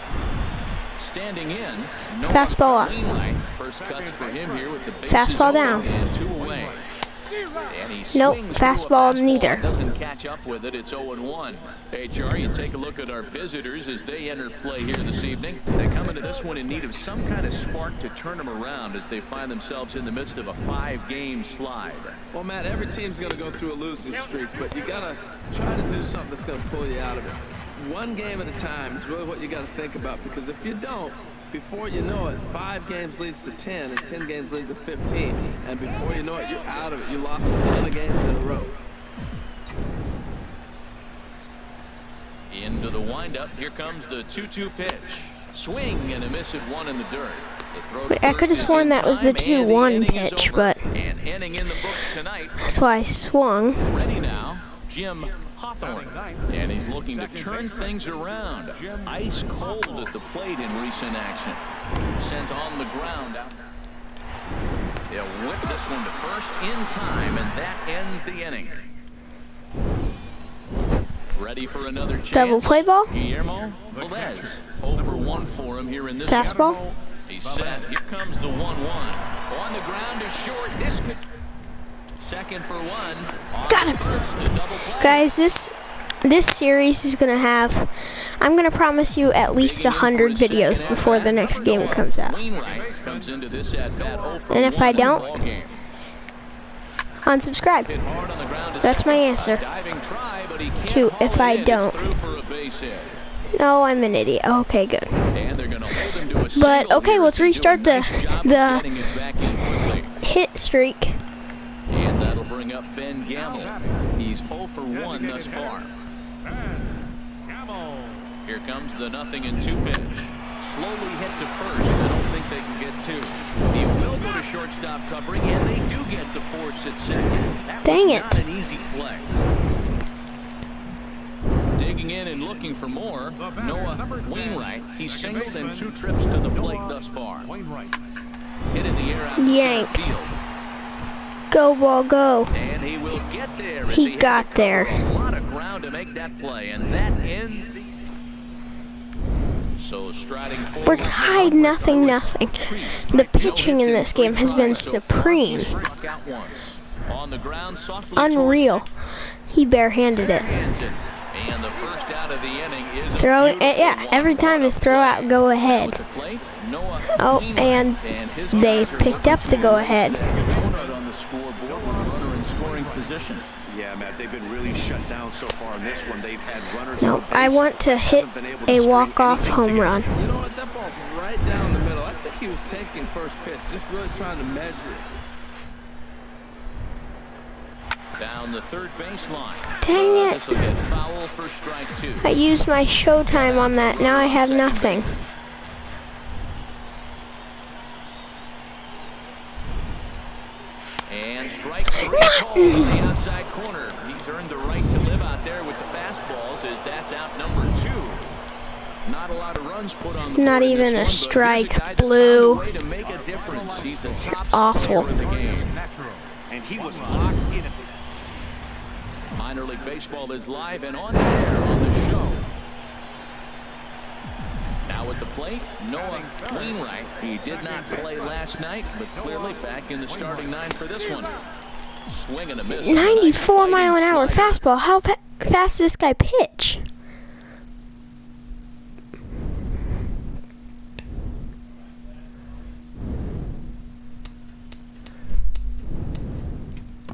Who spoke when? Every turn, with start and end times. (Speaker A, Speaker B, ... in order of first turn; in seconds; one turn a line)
Speaker A: 1.0-6.9
Speaker B: 2.3-3.0
Speaker C: 3.8-6.8
Speaker B: 5.1-5.9
Speaker A: 7.7-22.2
Speaker B: 8.1-9.7
Speaker D: 22.3-38.8
Speaker A: 42.5-52.6
Speaker B: 48.1-50.9
Speaker B: 52.6-54.0
Speaker A: 53.9-61.6
Speaker C: 55.8-58.0
Speaker C: 58.7-60.1
Speaker A: 62.2-63.6
Speaker A: 65.1-68.9
Speaker A: 71.3-76.5
Speaker B: 72.3-73.2
Speaker C: 73.9-75.5
Speaker B: 76.3-76.8
Speaker C: 76.3-77.8
Speaker A: 77.3-81.2
Speaker A: 82.2-85.2
Speaker B: 83.7-84.2
Speaker B: 85.0-92.4
Speaker A: 89.6-95.8
Speaker C: 92.5-94.7
Speaker B: 94.5-95.4
Speaker B: 97.3-97.9
Speaker A: 97.8-103.2
Speaker B: 98.8-99.6
Speaker B: 100.9-102.0
Speaker B: 103.5-105.4
Speaker A: 105.3-110.1
Speaker B: 106.5-108.9
Speaker B: 110.2-111.2
Speaker A: 111.9-115.9
Speaker C: 113.4-114.1
Speaker C: 114.9-115.7
Speaker C: 116.5-116.8
Speaker C: 117.5-118.3
Speaker A: 118.5-129.3
Speaker B: 127.8-128.4
Speaker A: 131.8-137.5
Speaker C: 133.4-136.0
Speaker C: 136.5-138.0
Speaker A: 138.7-140.4
Speaker B: 139.4-140.1
Speaker B: 141.5-142.6
Speaker A: 142.5-147.9
Speaker B: 143.9-145.1
Speaker A: 149.8-158.8
Speaker B: 150.8-155.8
Speaker B: 158.2-158.9
Speaker B: 159.5-160.6
Speaker A: 160.2-173.4
Speaker B: 163.2-166.0
Speaker B: 167.2-170.2
Speaker C: 168.6-169.5
Speaker C: 170.4-171.0
Speaker C: 171.7-173.2
Speaker E: 173.7-180.1
Speaker B: 177.0-180.1
Speaker D: 180.1-185.1
Speaker A: 188.2-192.3
Speaker B: 189.8-190.6
Speaker B: 192.2-195.2
Speaker A: 193.3-195.1
Speaker A: 201.1-208.3
Speaker B: 202.0-203.0
Speaker A: 209.1-215.7
Speaker B: 210.3-212.7
Speaker C: 213.0-217.3
Speaker B: 214.5-215.1
Speaker E: 216.5-217.8
Speaker A: 219.3-222.4
Speaker A: 224.9-231.4
Speaker C: 225.9-226.8
Speaker C: 227.5-228.4
Speaker C: 229.2-230.6
Speaker A: 232.1-234.6
Speaker B: 232.7-236.9